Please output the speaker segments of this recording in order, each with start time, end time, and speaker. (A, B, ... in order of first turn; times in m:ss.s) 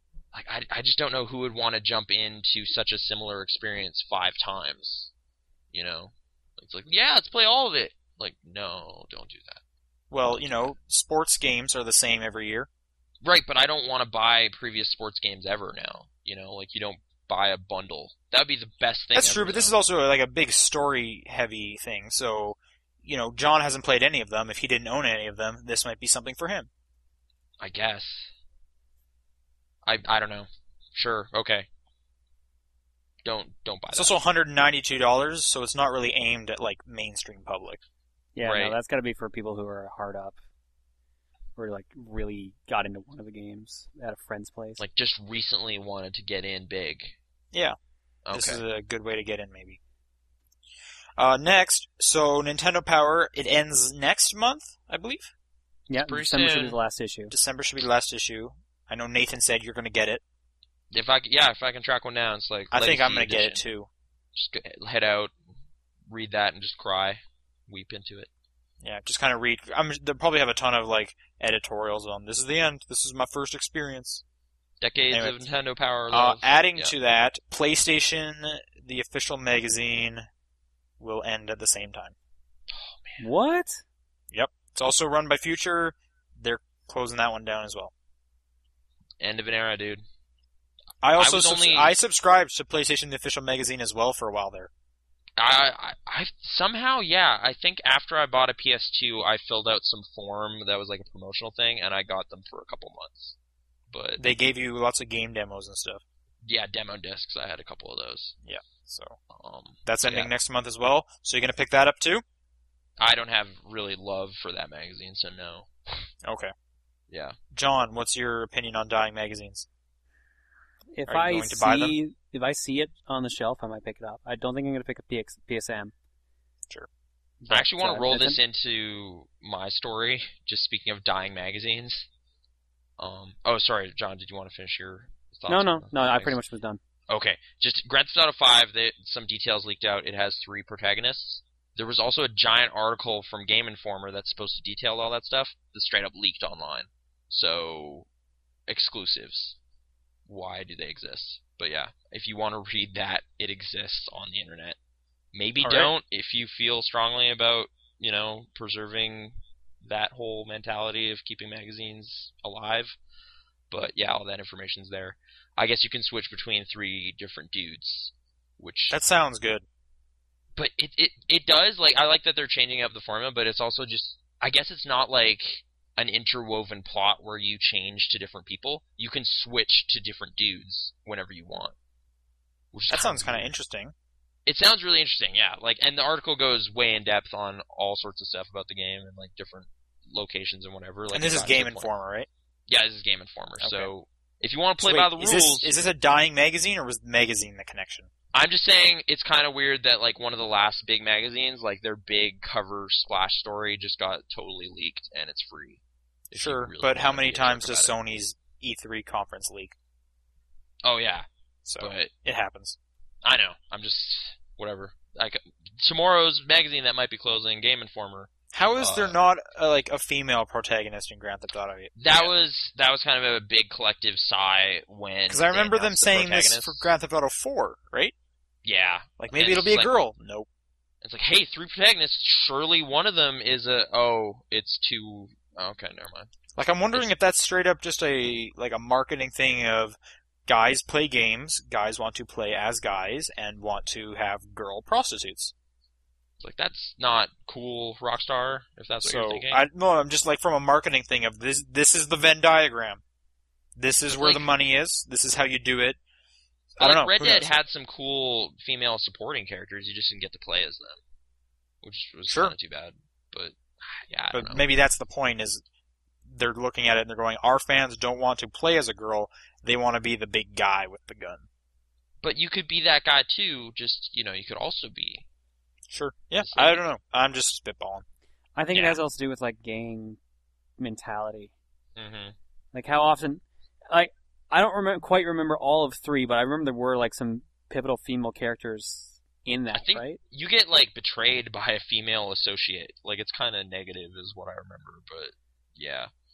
0:00.3-0:05.1 A
0:05.7-0:09.6 A
0:10.1-0:12.7 B
0:10.2-0:10.7 A
0:13.2-0:19.7 A
0:19.1-0:26.7 B
0:27.6-0:28.3 A
0:29.8-0:31.7 A
0:33.2-0:34.2 A
0:33.9-0:37.8 B
0:38.3-0:40.4 C
0:38.4-0:38.8 A
0:41.6-0:44.8 C
0:44.8-0:47.2 A
0:48.2-0:48.6 A
0:48.3-0:49.8 B
0:51.2-0:55.3 B
0:55.9-0:57.3 C
0:56.0-0:56.8 A
0:57.3-1:00.2 B
1:00.9-1:03.6 A
1:02.7-1:03.9 B
1:04.3-1:05.3 A
1:06.1-1:08.3 A
1:08.8-1:14.2 B
1:14.8-1:16.9 A
1:15.1-1:15.4 B
1:16.1-1:20.3 B
1:21.0-1:22.1 B
1:22.7-1:23.2 A
1:23.2-1:23.8 C
1:24.3-1:27.9 B
1:29.2-1:30.0 A
1:31.0-1:34.7 B
1:31.2-1:31.9 A
1:35.4-1:43.4 A
1:43.9-1:44.2 A
1:44.2-1:46.0 B
1:46.4-1:48.4 A
1:48.4-1:49.2 B
1:49.3-1:50.3 A
1:49.8-1:52.2 B
1:53.0-1:56.1 A
1:56.2-1:56.5 B
1:57.1-1:57.4 A
1:57.5-1:59.6 B
2:00.9-2:05.9 C
2:01.1-2:02.0 B
2:07.4-2:08.4 C
2:07.5-2:12.1 A
2:13.0-2:16.4 A
2:15.5-2:16.8 C
2:17.1-2:28.1 A
2:28.7-2:29.6 A
2:30.3-2:34.8 A
2:35.3-2:43.0 A
2:35.6-2:35.9 B
2:43.7-2:49.0 A
2:48.9-2:49.6 B
2:50.6-3:01.7 A
3:02.7-3:03.5 A
3:02.9-3:03.9 B
3:04.4-3:11.9 A
3:11.1-3:12.3 B
3:12.7-3:15.9 A
3:13.6-3:13.9 B
3:14.8-3:18.1 B
3:18.3-3:25.8 A
3:26.3-3:27.9 A
3:26.3-3:29.7 B
3:30.8-3:31.3 A
3:31.6-3:32.8 B
3:31.8-3:32.1 A
3:33.2-3:39.2 A
3:38.5-3:42.3 B
3:42.0-3:46.9 A
3:45.3-3:48.1 B
3:48.6-3:49.9 A
3:49.2-3:50.5 B
3:51.0-3:56.3 A
3:56.6-4:05.5 B
4:06.4-4:09.6 A
4:09.0-4:13.0 B
4:13.8-4:16.0 B
4:14.1-4:14.5 A
4:16.8-4:17.5 B
4:16.8-4:21.0 A
4:21.8-4:24.6 A
4:22.3-4:22.5 B
4:24.3-4:25.6 B
4:26.3-4:31.4 B
4:32.2-4:35.2 A
4:35.9-4:38.0 B
4:36.4-4:36.8 A
4:38.6-4:40.2 C
4:38.7-4:39.0 A
4:40.8-4:41.5 C
4:42.0-4:42.4 A
4:42.7-4:50.2 C
4:49.7-4:56.1 A